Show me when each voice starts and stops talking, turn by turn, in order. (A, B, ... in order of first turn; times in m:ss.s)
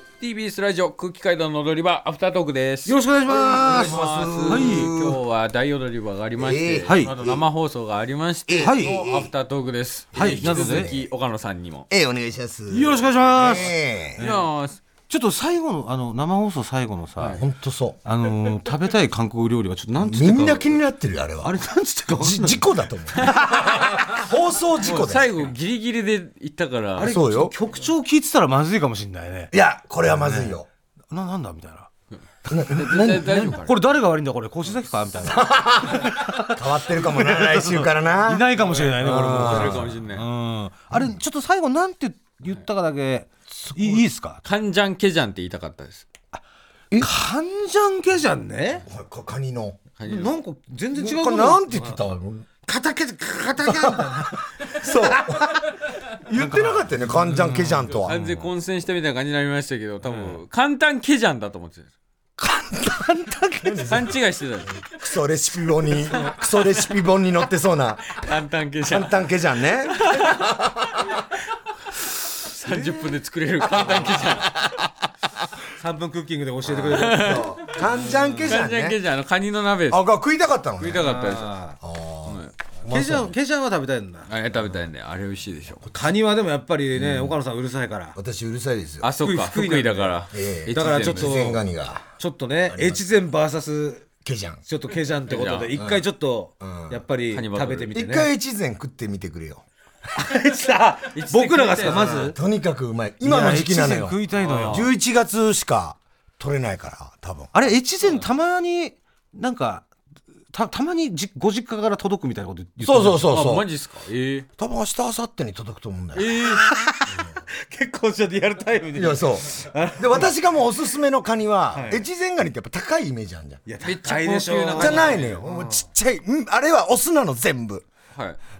0:00.2-0:11.9 A
0:02.8-0:04.9 B
0:03.3-0:05.2 C
0:06.4-0:07.4 C
0:06.9-0:07.1 B
0:08.5-0:09.3 C
0:08.6-0:09.0 B
0:10.1-0:11.0 C
0:10.1-0:10.9 B
0:11.9-0:14.2 C
0:12.7-0:14.5 B
0:14.2-0:14.8 A
0:15.1-0:17.4 B
0:17.3-0:18.0 C
0:18.0-0:20.8 B
0:20.0-0:21.5 C
0:21.4-0:23.9 B
0:22.2-0:25.5 C
0:24.8-0:27.2 A
0:27.0-0:29.5 B
0:27.0-0:27.5 C
0:29.5-0:30.7 C
0:30.2-0:30.6 B
0:31.1-0:31.9 B
0:32.5-0:33.5 C
0:32.7-0:33.8 A
0:33.2-0:44.4 B
0:35.2-0:40.0 C
0:39.1-0:40.3 A
0:43.5-0:44.0 C
0:44.4-0:46.0 A
0:47.0-0:48.8 B
0:48.8-0:49.8 C
0:50.0-0:50.4 A
0:50.0-0:52.0 B
0:51.0-0:52.5 C
0:52.6-0:55.6 B
0:53.6-0:55.6 C
0:56.2-0:58.2 C
0:56.3-0:58.5 B
0:58.0-1:01.9 A
1:00.0-1:00.4 B
1:02.4-1:03.9 B
1:03.6-1:04.1 C
1:03.8-1:04.8 A
1:04.7-1:08.2 C
1:08.1-1:09.3 A
1:08.8-1:10.8 C
1:09.8-1:10.6 A
1:12.1-1:14.7 A
1:12.7-1:13.0 B
1:15.7-1:18.6 B
1:16.7-1:19.0 C
1:16.9-1:17.6 A
1:18.4-1:20.0 A
1:19.9-1:21.0 C
1:20.8-1:21.6 A
1:21.0-1:21.8 B
1:21.8-1:23.3 C
1:22.2-1:22.5 A
1:22.8-1:24.3 B
1:24.3-1:25.9 A
1:25.9-1:28.2 B
1:26.9-1:27.4 C
1:28.2-1:29.1 C
1:29.0-1:31.5 A
1:29.2-1:30.2 B
1:30.3-1:32.1 C
1:30.7-1:31.6 B
1:32.2-1:34.0 B
1:32.7-1:33.0 C
1:34.2-1:34.6 C
1:34.6-1:38.3 B
1:35.3-1:35.8 A
1:35.8-1:36.0 C
1:36.6-1:37.0 C
1:37.3-1:37.9 A
1:37.9-1:39.6 C
1:40.1-1:42.4 B
1:41.1-1:42.2 A
1:41.8-1:47.5 C
1:43.2-1:44.9 B
1:44.4-1:44.9 A
1:47.5-1:49.9 B
1:50.5-1:53.3 B
1:52.8-1:53.7 C
1:53.3-1:54.5 A
1:54.6-1:56.4 C
1:56.1-1:56.7 A
1:56.6-2:00.3 B
1:58.9-2:03.6 C
2:01.7-2:02.0 B
2:03.7-2:05.9 B
2:03.8-2:05.4 A
2:04.8-2:07.9 C